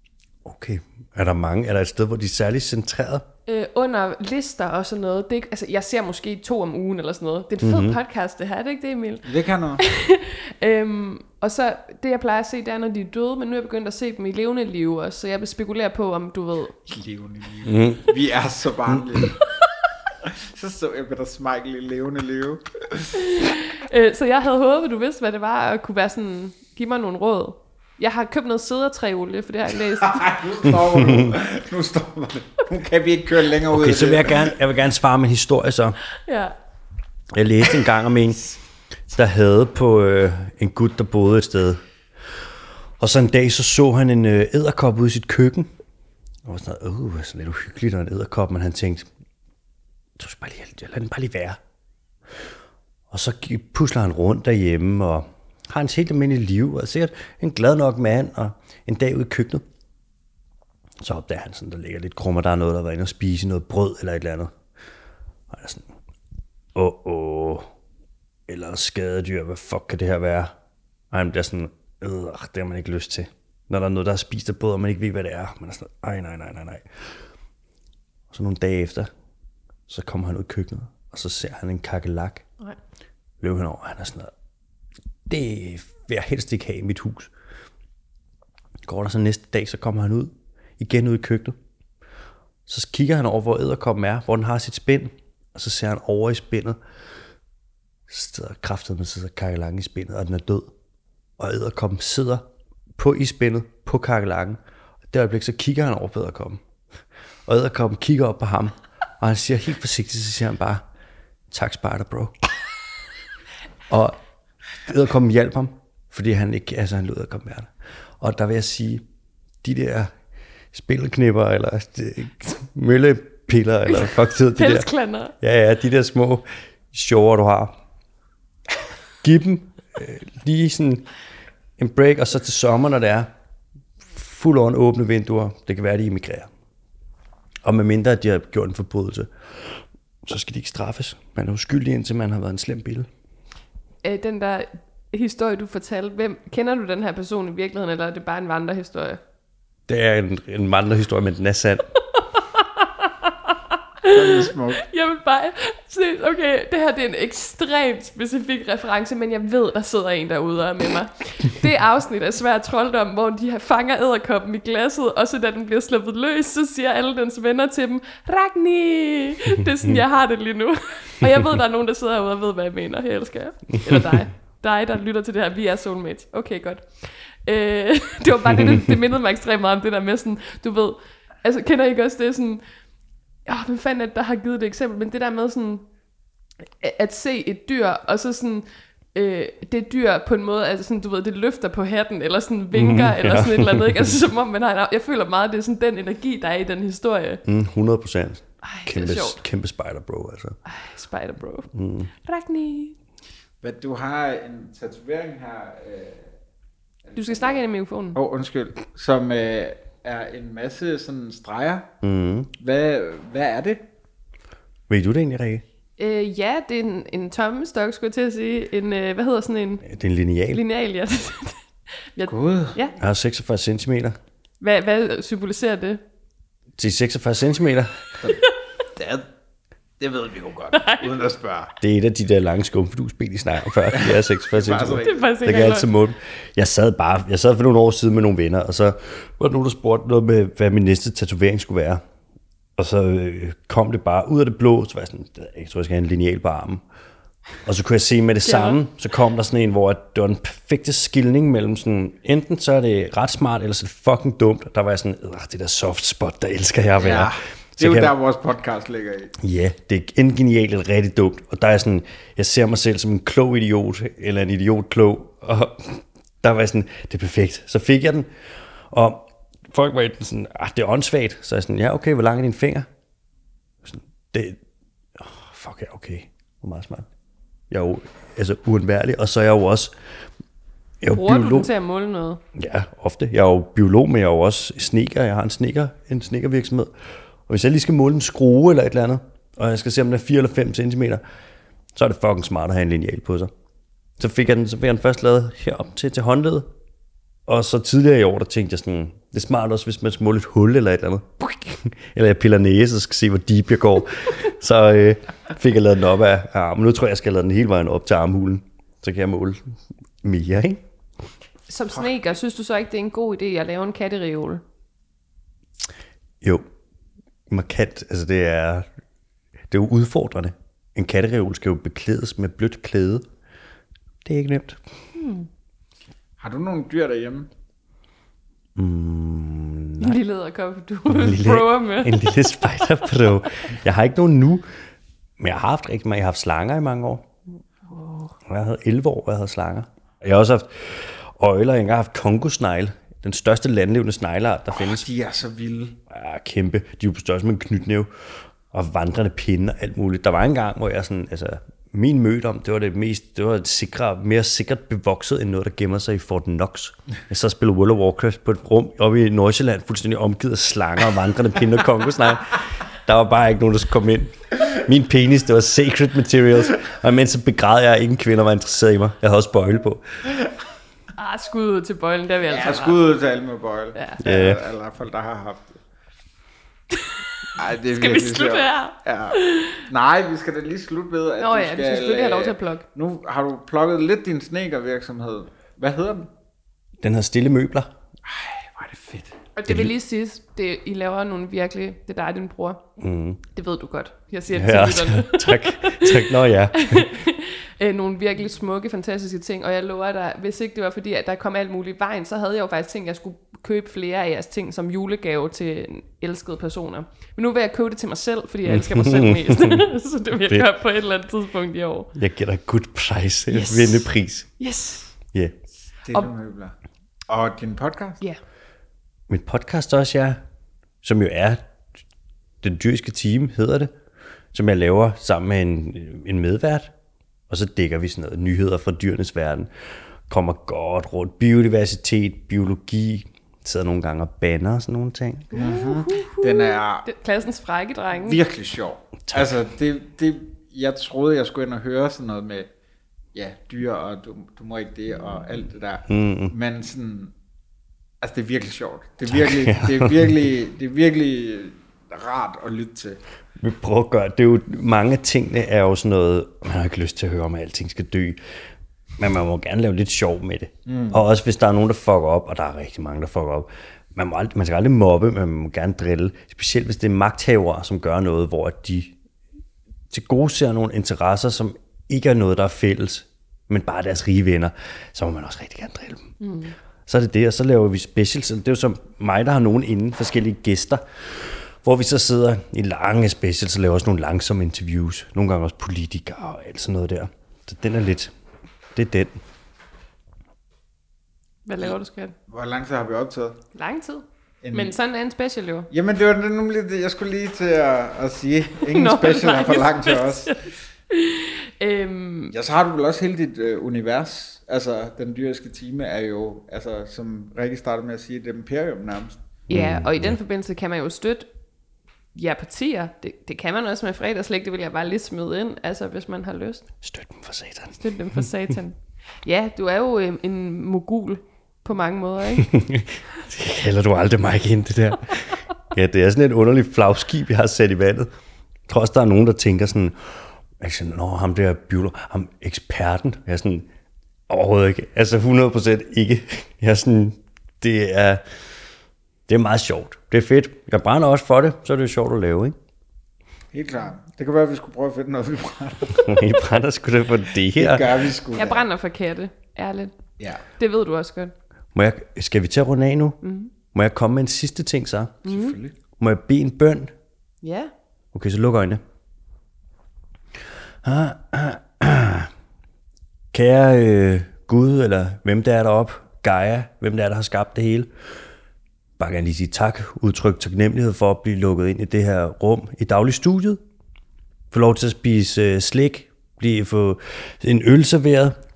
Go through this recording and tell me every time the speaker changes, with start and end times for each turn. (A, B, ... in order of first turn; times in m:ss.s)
0:00.4-0:03.3 A
0:03.5-0:16.8 B
0:07.6-0:08.0 A
0:09.2-0:09.8 C
0:16.9-0:19.4 C
0:17.6-0:18.1 A
0:20.2-0:23.2 C
0:23.2-0:30.3 B
0:29.9-0:34.6 C
0:30.9-0:31.3 A
0:33.7-0:36.0 A
0:36.2-0:36.6 B
0:37.3-0:38.5 A
0:39.1-0:41.8 A
0:43.0-0:45.7 A
0:46.4-0:49.1 A
0:50.2-0:51.6 A
0:53.1-0:59.6 A
1:01.0-1:04.5 A
1:05.5-1:05.9 A
1:06.8-1:07.7 A
1:08.5-1:10.5 A
1:11.1-1:16.8 A
1:18.3-1:19.1 A
1:19.9-1:22.5 A
1:23.4-1:24.3 A
1:25.3-1:27.3 A
1:28.8-1:31.6 A
1:32.7-1:36.8 A
1:38.1-1:40.7 A
1:41.4-1:42.4 A
1:43.0-1:44.6 A
1:45.1-1:46.6 A
1:47.5-1:50.8 A
1:51.5-1:52.4 A
1:53.9-1:54.2 A
1:54.8-1:59.0 A
1:59.6-2:00.1 A
2:00.7-2:04.9 A
2:03.9-2:05.4 B
2:05.4-2:07.8 A
2:09.2-2:11.1 A
2:11.8-2:13.3 A
2:14.1-2:16.5 A
2:17.6-2:23.1 A
2:24.0-2:29.2 B
2:29.9-2:31.9 A
2:32.4-2:33.5 B
2:34.0-3:02.6 B
2:34.1-2:34.8 C
3:03.5-3:05.8 B
3:06.8-3:17.4 B
3:12.7-3:14.1 A
3:17.4-3:20.6 A
3:18.6-3:19.4 B
3:20.7-3:23.0 B
3:21.7-3:22.1 A
3:23.6-3:26.3 C
3:27.0-3:27.6 C
3:27.2-3:28.2 B
3:28.2-3:31.9 C
3:32.0-3:32.5 A
3:32.6-3:33.9 C
3:34.9-3:35.6 A
3:36.0-3:39.9 B
3:39.8-3:40.6 A
3:40.5-3:41.6 B
3:42.1-3:43.0 B
3:42.3-3:42.8 C
3:43.0-3:44.2 A
3:44.6-3:46.0 B
3:46.8-3:48.1 A
3:49.0-3:49.3 C
3:50.0-3:51.7 C
3:50.7-3:51.3 B
3:51.8-4:02.0 A
3:53.9-3:55.3 C
3:55.0-3:55.9 B
4:02.8-4:06.8 A
4:07.6-4:18.2 A
4:08.4-4:08.8 B
4:17.0-4:19.4 C
4:19.4-4:28.3 A
4:28.9-4:32.9 A
4:33.8-4:34.6 A
4:35.2-4:37.1 A
4:37.7-4:39.9 A
4:41.0-4:41.7 A
4:41.1-4:42.4 B
4:42.6-4:46.9 A
4:47.5-4:51.2 A
4:51.9-4:53.5 A
4:54.2-4:56.7 A
4:57.5-5:10.8 A
5:11.7-5:14.6 B
5:17.5-5:18.9 A
5:19.7-5:23.3 A
5:24.2-5:24.8 A
5:25.2-5:25.5 B
5:26.4-5:27.5 C
5:28.8-5:30.2 A
5:30.0-5:32.2 B
5:31.1-5:34.7 A
5:35.4-5:37.3 A
5:37.9-5:38.3 B
5:38.5-5:45.1 A
5:44.8-5:46.0 C
5:46.1-5:48.1 A
5:48.7-6:10.2 A
6:11.2-6:13.0 B
6:12.5-6:15.8 C
6:14.2-6:14.6 A
6:17.6-6:26.3 C
6:17.9-6:19.8 B
6:21.4-6:22.9 B
6:27.0-6:27.9 A
6:28.3-6:29.4 C
6:29.6-6:32.8 B
6:33.0-6:33.4 A
6:33.5-6:52.1 B
6:34.5-6:37.1 A
6:48.7-6:49.8 A
6:50.4-6:50.7 A
6:52.2-6:54.5 A
6:53.5-6:55.1 B
6:56.0-6:56.8 C
6:57.3-6:58.2 C
6:59.3-7:00.4 A
7:01.0-7:01.7 A
7:02.6-7:03.9 A
7:04.5-7:06.9 A
7:07.5-7:09.7 A
7:10.3-7:15.5 A
7:15.5-7:18.4 B
7:15.5-7:17.1 C
7:18.2-7:22.7 C
7:19.3-7:19.5 A
7:23.4-7:27.3 C
7:26.1-7:26.5 A
7:28.2-7:33.2 C
7:29.3-7:30.3 A
7:33.6-7:38.4 A
7:39.2-7:49.2 A
7:40.9-7:41.2 C
7:50.1-7:56.3 A
7:56.4-7:56.7 B
7:57.1-8:08.3 A
8:09.0-8:09.4 A
8:11.7-8:12.4 B
8:12.5-8:13.6 C
8:13.8-8:15.9 B
8:14.6-8:15.0 C
8:15.9-8:20.5 C
8:18.8-8:22.6 B
8:22.5-8:29.4 C
8:29.7-8:31.5 B
8:29.7-8:30.4 A
8:32.4-8:36.8 B
8:37.0-8:38.4 A
8:38.0-8:42.7 B
8:42.6-8:48.3 A
8:48.9-8:50.2 A
8:50.8-8:53.9 A
8:54.5-8:58.4 A
8:59.5-9:02.8 A
9:03.7-9:06.4 C
9:06.1-9:08.2 A
9:07.7-9:08.9 C
9:08.5-9:10.2 B
9:10.8-9:11.5 B
9:11.9-9:13.4 A
9:13.4-9:13.7 B
9:13.9-9:15.4 A
9:15.4-9:16.0 C
9:15.5-9:15.8 B
9:16.2-9:17.1 A
9:17.6-9:17.9 B
9:18.3-9:19.0 A
9:21.0-9:22.5 A
9:23.5-9:28.1 A
9:29.2-9:33.8 A
9:34.7-9:38.6 A